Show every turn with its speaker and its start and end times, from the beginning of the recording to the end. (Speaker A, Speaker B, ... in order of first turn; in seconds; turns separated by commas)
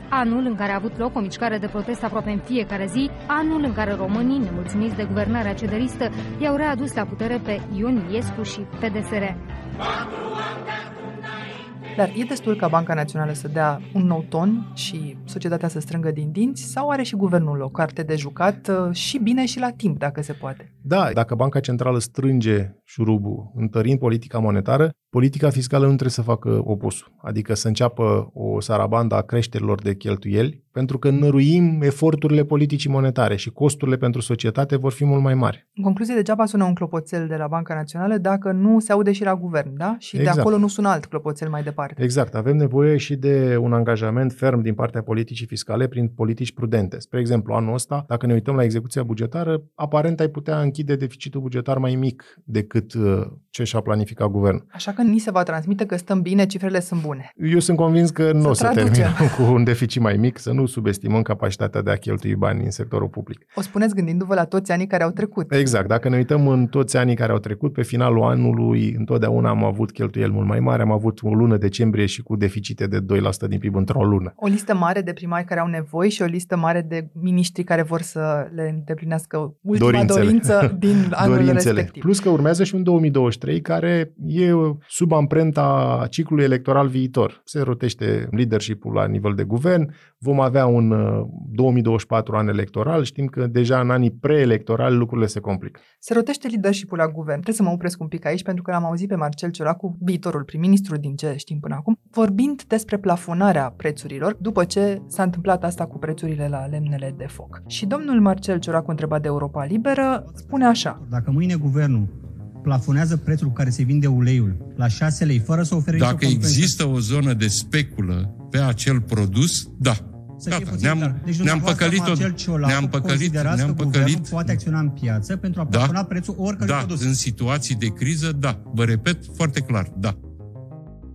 Speaker A: 0.1-9.4, Speaker B: 11.9-20.7, Speaker C: 20.8-35.6, Speaker B: 35.8-42.0, Speaker C: 40.1-40.5, Speaker C: 42.0-54.6, Speaker B: 54.7-57.3, Speaker C: 57.4-63.5, Speaker B: 58.4-59.3, Speaker B: 63.5-65.7, Speaker C: 65.5-74.3, Speaker B: 74.4-82.1, Speaker C: 79.7-95.8, Speaker B: 96.0-111.0, Speaker D: 110.2-116.8, Speaker E: 115.9-124.6, Speaker D: 120.4-127.1, Speaker E: 125.7-126.0, Speaker E: 126.6-130.1